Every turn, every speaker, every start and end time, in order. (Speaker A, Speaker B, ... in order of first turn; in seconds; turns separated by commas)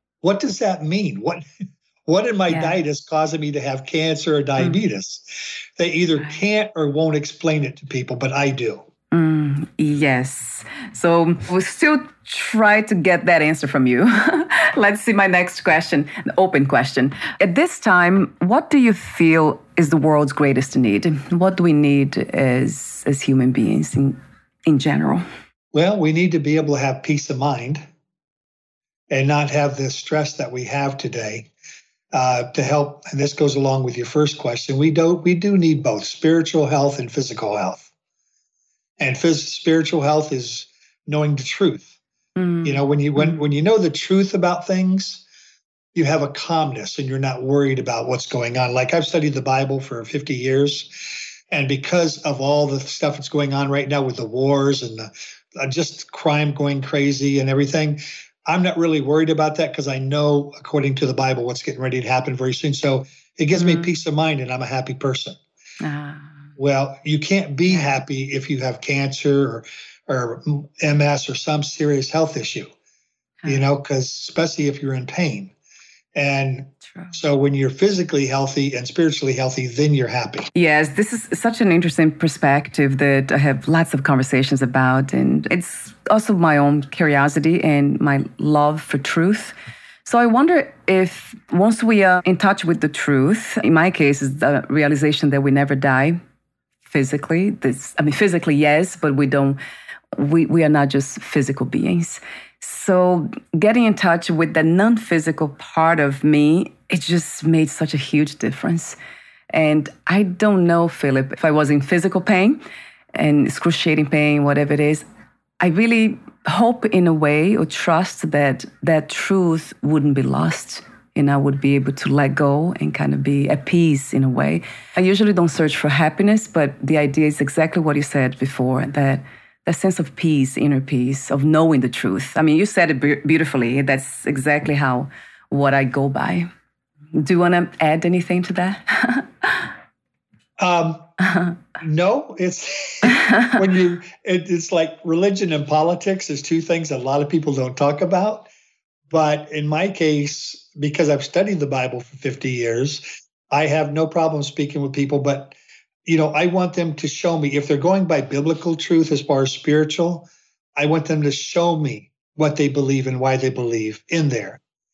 Speaker A: 0.2-1.4, Speaker A: 2.1-8.8, Speaker B: 2.5-2.8, Speaker B: 4.6-4.8, Speaker B: 9.1-25.2, Speaker A: 25.7-27.8, Speaker A: 29.1-31.5, Speaker A: 32.1-37.9, Speaker A: 39.0-41.9, Speaker B: 42.4-43.5, Speaker A: 42.6-45.2, Speaker A: 46.0-65.4, Speaker B: 63.5-63.9, Speaker B: 65.8-66.3, Speaker A: 66.6-72.7, Speaker B: 67.7-68.0, Speaker A: 73.5-75.5, Speaker A: 76.2-80.5, Speaker B: 80.5-89.5, Speaker B: 90.1-96.2, Speaker B: 96.9-99.6, Speaker B: 100.2-109.0, Speaker B: 109.5-112.6, Speaker B: 113.1-115.1, Speaker B: 115.6-136.5, Speaker B: 137.2-139.7, Speaker A: 140.6-141.1, Speaker A: 141.8-148.5, Speaker B: 143.1-143.6, Speaker A: 149.1-164.6